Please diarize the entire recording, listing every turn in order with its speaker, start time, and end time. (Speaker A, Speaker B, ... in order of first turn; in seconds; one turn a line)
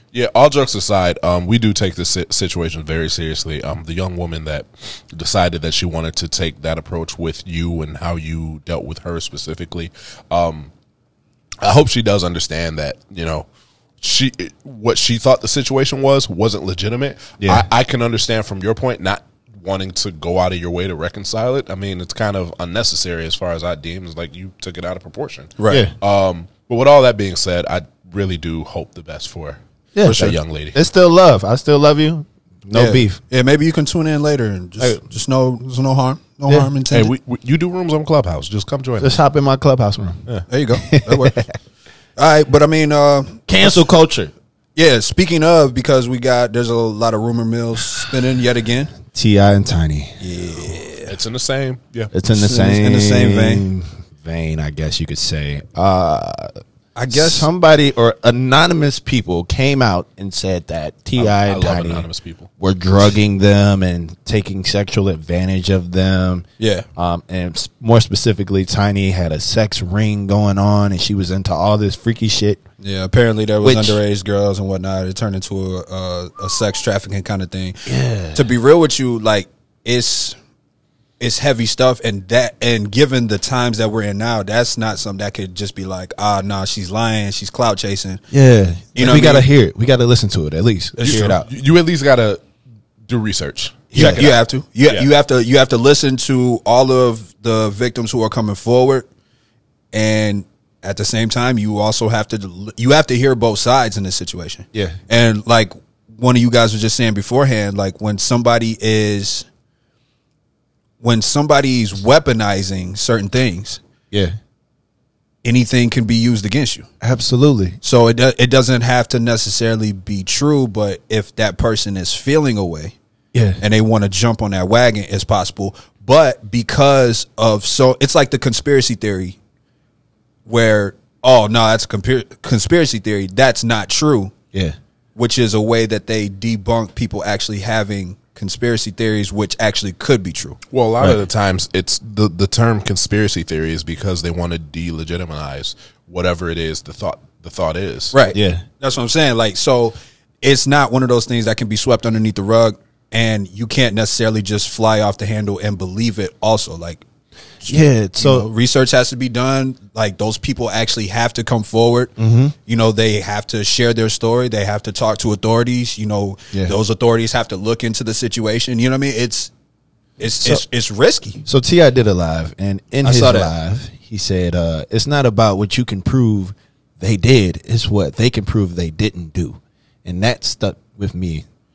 Speaker A: 0.1-10.7
Speaker A: 11.6-13.5
Speaker A: 14.0-30.8
Speaker B: 17.4-17.7
Speaker C: 25.6-25.9
Speaker B: 25.7-25.9
Speaker B: 29.9-33.2
Speaker C: 30.1-30.3
Speaker C: 32.7-37.1
Speaker A: 36.9-39.2
Speaker B: 39.0-40.3
Speaker C: 40.5-41.4
Speaker B: 40.9-41.5
Speaker C: 42.2-43.8
Speaker B: 43.5-44.3
Speaker C: 44.8-48.9
Speaker B: 49.1-50.2
Speaker C: 50.2-51.1
Speaker A: 51.1-52.1
Speaker B: 52.1-56.5
Speaker C: 52.3-53.7
Speaker C: 57.0-57.5
Speaker B: 57.1-62.1
Speaker A: 61.2-62.5
Speaker B: 62.6-72.6
Speaker C: 66.6-66.9
Speaker C: 72.8-80.4
Speaker B: 73.6-74.0
Speaker B: 77.9-78.5
Speaker C: 81.2-88.2
Speaker B: 88.3-91.4
Speaker C: 89.0-89.5
Speaker C: 91.0-91.4
Speaker A: 91.0-92.4
Speaker A: 93.1-95.1
Speaker B: 93.9-94.3
Speaker C: 93.9-99.1
Speaker C: 99.9-109.5
Speaker C: 111.0-113.8
Speaker B: 114.1-114.4
Speaker C: 115.4-116.9
Speaker B: 117.0-117.8
Speaker C: 117.8-123.0
Speaker B: 123.3-123.6
Speaker C: 123.6-129.4
Speaker C: 130.5-134.3
Speaker C: 135.2-140.6
Speaker A: 140.7-148.2
Speaker C: 148.1-157.0
Speaker B: 148.3-148.7
Speaker C: 157.6-162.1
Speaker B: 157.7-158.5
Speaker B: 162.2-162.6
Speaker C: 162.7-169.5
Speaker C: 170.2-171.4
Speaker B: 171.4-181.5
Speaker C: 173.0-173.5